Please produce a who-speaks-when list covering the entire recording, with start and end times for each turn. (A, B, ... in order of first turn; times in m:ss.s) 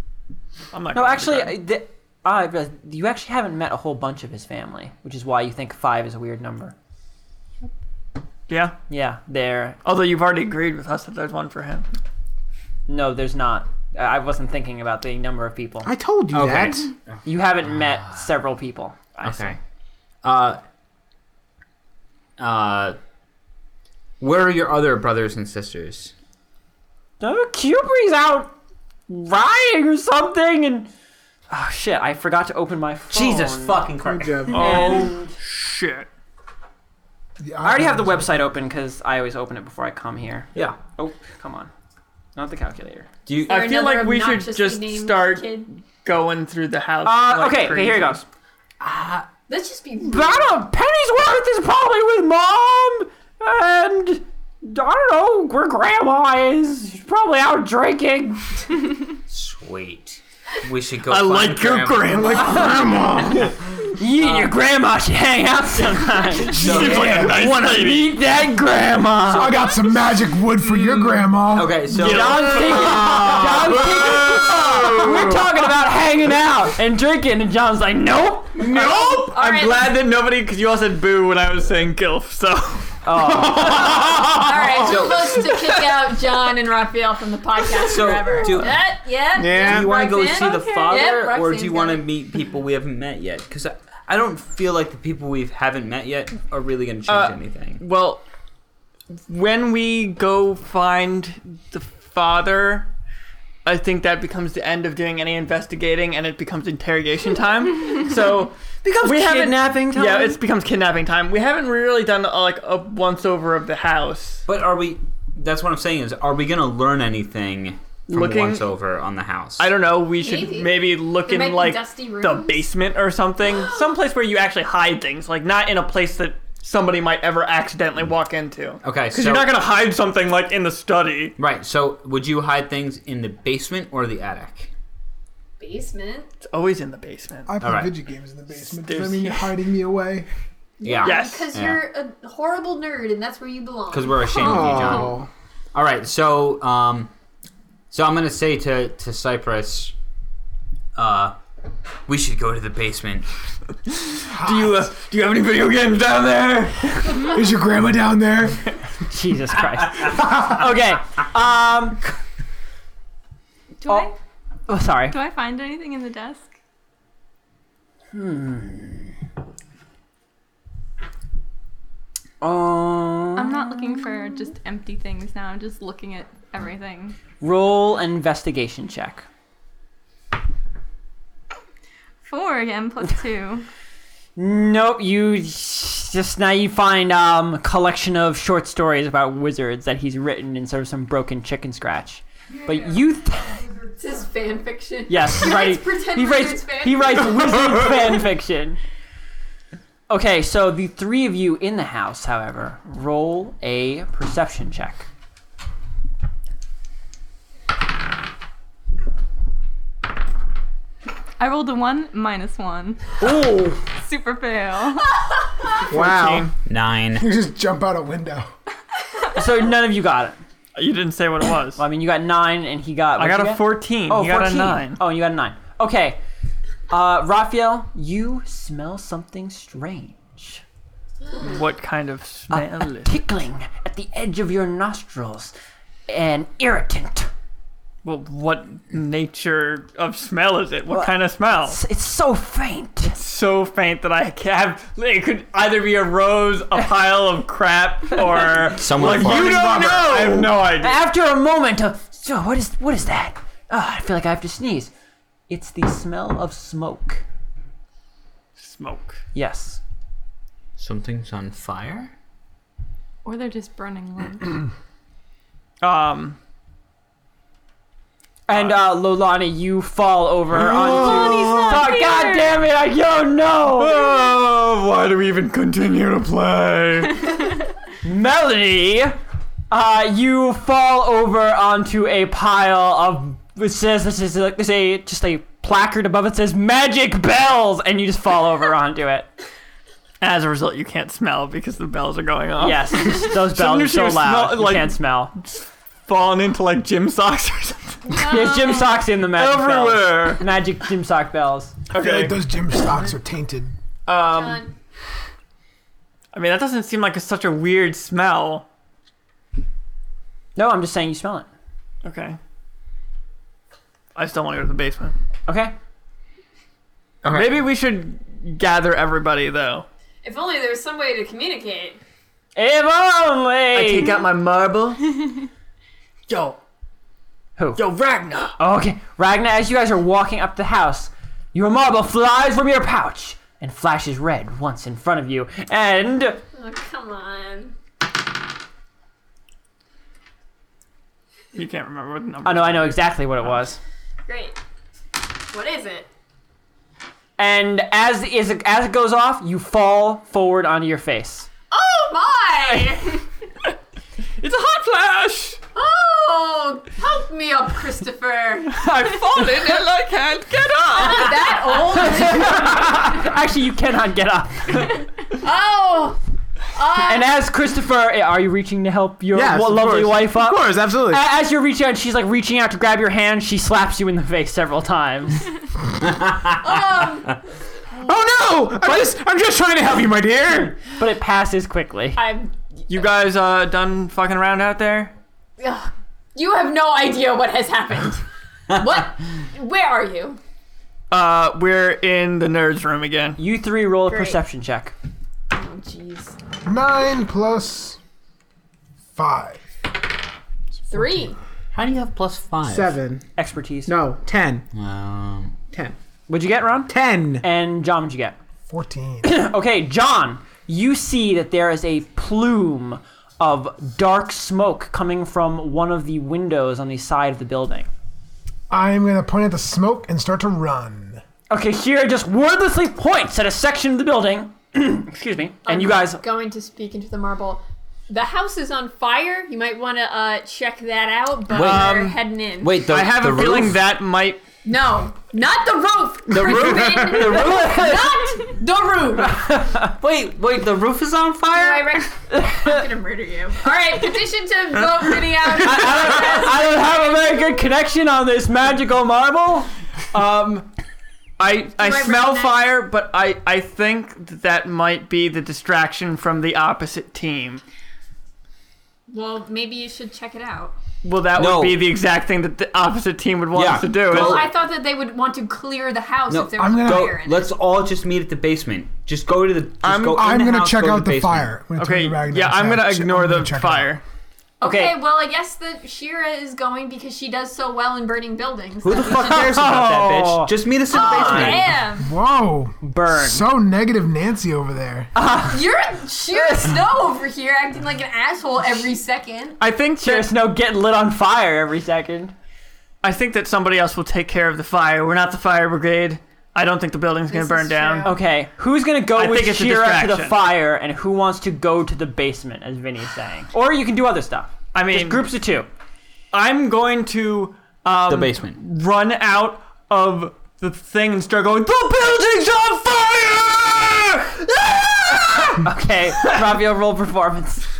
0:00.7-0:01.6 A
0:00.9-0:06.7 B
0:08.5-0:08.8 A
0:08.9-0:09.8 B
0:09.8-0:11.9 A
0:12.9-0:15.9 B
0:15.8-0:16.9 C
0:16.3-0:18.2 D
0:17.2-0:19.6 B
0:19.2-0:19.6 D
0:20.2-0:20.6 D
0:22.4-0:23.0 D
0:24.2-0:26.1 D
0:27.2-0:28.5 B
0:29.1-0:30.9 B
0:31.5-0:33.9 B
0:33.1-0:34.6 D
0:34.0-0:34.6 C
0:34.5-0:36.1 A
0:34.5-0:35.3 B
0:37.4-0:38.4 E
0:37.6-0:41.7 B
0:40.5-0:40.8 D
0:42.4-0:43.1 B
0:43.2-0:43.7 D
0:43.4-0:45.7 F
0:43.5-0:48.2 A
0:47.0-0:48.2 B
0:48.8-0:49.3 D
0:49.5-0:50.6 F
0:50.0-0:58.4 B
0:59.3-1:02.6 D
1:01.0-1:02.8 A
1:02.1-1:03.5 E
1:04.0-1:09.5 B
1:04.2-1:04.5 D
1:06.1-1:08.3 A
1:06.5-1:07.2 E
1:06.6-1:07.6 D
1:09.3-1:11.8 E
1:09.3-1:10.0 D
1:11.5-1:15.1 D
1:11.9-1:15.4 A
1:11.9-1:18.8 B
1:18.6-1:19.3 C
1:18.7-1:19.9 F
1:18.8-1:23.0 A
1:23.0-1:24.0 B
1:23.2-1:24.4 C
1:23.6-1:32.1 F
1:24.8-1:25.4 D
1:27.8-1:28.8 D
1:29.3-1:29.9 C
1:29.6-1:37.8 D
1:37.1-1:38.2 A
1:39.1-1:42.9 A
1:43.6-1:54.4 A
1:48.1-1:50.4 B
1:54.5-1:59.7 D
1:58.1-1:58.6 A
1:59.6-2:11.3 A
2:00.1-2:02.7 F
2:03.4-2:03.9 F
2:08.8-2:09.5 D
2:11.4-2:14.7 D
2:15.6-2:16.3 F
2:16.4-2:17.5 A
2:17.5-2:20.3 E
2:17.6-2:17.9 D
2:18.5-2:19.6 A
2:20.8-2:25.1 F
2:20.8-2:21.9 D
2:21.0-2:21.5 A
2:23.9-2:25.2 D
2:24.4-2:25.3 C
2:25.7-2:27.1 D
2:27.9-2:29.9 D
2:30.9-2:31.4 D
2:32.1-2:33.2 D
2:33.9-2:37.1 A
2:34.3-2:34.7 E
2:37.3-2:38.6 E
2:39.0-2:42.0 B
2:43.8-2:44.1 G
2:43.8-2:44.1 B
2:44.7-2:45.2 B
2:45.1-2:46.5 G
2:48.1-2:49.1 B
2:52.4-2:54.5 B
2:53.4-2:57.2 G
2:57.4-2:59.2 B
3:02.2-3:03.6 G
3:04.4-3:13.6 B
3:13.9-3:17.7 F
3:15.1-3:18.8 B
3:20.1-3:25.0 B
3:31.4-3:33.3 G
3:33.3-3:33.7 C
3:33.9-3:35.1 G
3:35.9-3:36.5 A
3:35.9-3:36.5 C
3:36.6-3:37.3 D
3:37.2-3:38.5 E
3:39.3-3:40.4 B
3:40.7-3:41.8 A
3:41.8-3:46.2 B
3:43.2-3:45.0 A
3:46.9-3:50.6 B
3:51.4-3:53.2 A
3:52.5-3:55.5 B
3:56.1-3:57.3 B
3:58.0-4:01.8 A
4:00.9-4:03.2 B
4:03.1-4:11.0 A
4:08.7-4:09.8 D
4:09.0-4:10.6 C
4:10.8-4:14.9 B
4:15.5-4:17.2 B
4:18.6-4:19.2 A
4:19.3-4:19.8 B
4:20.8-4:22.1 D
4:23.2-4:24.6 G
4:25.8-4:26.4 A
4:28.5-4:34.0 B
4:28.5-4:28.8 A
4:30.5-4:31.7 A
4:30.8-4:32.6 G
4:33.8-4:37.3 A
4:38.0-4:39.2 B
4:39.7-4:49.3 B
4:50.2-4:58.2 A
4:52.6-4:55.3 B
4:58.1-4:58.9 F
4:58.2-5:01.7 B
4:59.3-5:00.4 A
5:01.9-5:02.4 A
5:02.0-5:03.7 E
5:04.1-5:04.7 A
5:04.2-5:04.7 F
5:06.3-5:08.6 A
5:10.6-5:11.5 B
5:12.0-5:12.4 A
5:14.1-5:15.1 A
5:15.5-5:15.7 B
5:17.2-5:17.6 D
5:17.2-5:19.8 A
5:20.2-5:22.0 F
5:22.6-5:24.1 B
5:23.7-5:25.2 A
5:26.3-5:26.6 A
5:27.6-5:27.8 B
5:27.8-5:28.6 A
5:28.6-5:36.4 B
5:36.5-5:37.7 F
5:41.5-5:43.0 A
5:42.4-5:43.8 B
5:44.3-5:44.6 F
5:45.5-5:46.1 F
5:47.4-5:51.5 B
5:51.7-5:53.2 F
5:54.4-5:55.6 A
5:55.7-5:58.8 F
5:58.7-6:01.9 A
6:00.9-6:03.0 F
6:02.0-6:04.9 B
6:05.4-6:06.2 F
6:06.8-6:07.3 F
6:07.0-6:15.5 B
6:09.3-6:11.2 C
6:16.1-6:16.5 D
6:16.6-6:17.4 F
6:18.0-6:20.8 C
6:20.8-6:22.2 B
6:22.1-6:22.8 F
6:22.9-6:25.1 A
6:25.6-6:30.4 F
6:31.1-6:33.4 A
6:33.4-6:34.9 B
6:34.1-6:34.4 F
6:35.5-6:36.4 F
6:36.6-6:38.0 E
6:39.1-6:39.6 E
6:40.9-6:41.4 F
6:41.7-6:42.9 D
6:42.6-6:43.2 C
6:43.4-6:43.9 B
6:43.9-6:44.6 C
6:44.7-6:45.5 D
6:46.3-6:48.4 B
6:46.9-6:47.4 C
6:48.7-6:49.3 E
6:49.2-6:57.9 B
6:58.7-7:01.2 E
7:01.5-7:06.2 B
7:05.6-7:12.8 F
7:11.5-7:12.3 A
7:11.5-7:12.0 D
7:12.6-7:13.8 D
7:12.8-7:14.4 A
7:14.6-7:19.6 F
7:16.3-7:18.1 D
7:19.3-7:19.9 B
7:19.8-7:22.0 D
7:21.5-7:27.6 F
7:22.3-7:22.8 B
7:25.6-7:30.6 B
7:31.4-7:37.6 A
7:31.8-7:32.6 F
7:39.1-7:40.8 F
7:41.0-7:44.5 A
7:41.4-7:41.9 D
7:43.5-7:44.5 D
7:43.9-7:47.5 F
7:46.3-7:51.5 D
7:46.6-7:47.1 E
7:49.8-7:50.3 A
7:50.1-7:54.0 E
7:51.8-7:54.0 A
7:54.6-7:59.4 F
7:54.6-7:55.0 B
7:58.8-8:01.8 D
7:59.0-8:01.7 B
8:00.9-8:02.1 F
8:02.0-8:05.1 E
8:02.8-8:03.4 B
8:05.1-8:05.7 B
8:05.4-8:09.6 F
8:06.3-8:06.8 B
8:09.6-8:10.3 A
8:10.0-8:12.3 B
8:13.0-8:18.2 A
8:17.2-8:18.2 F
8:18.0-8:25.7 B
8:19.1-8:20.4 A
8:24.7-8:25.3 A
8:26.3-8:35.6 A
8:28.0-8:28.6 D
8:35.5-8:37.6 B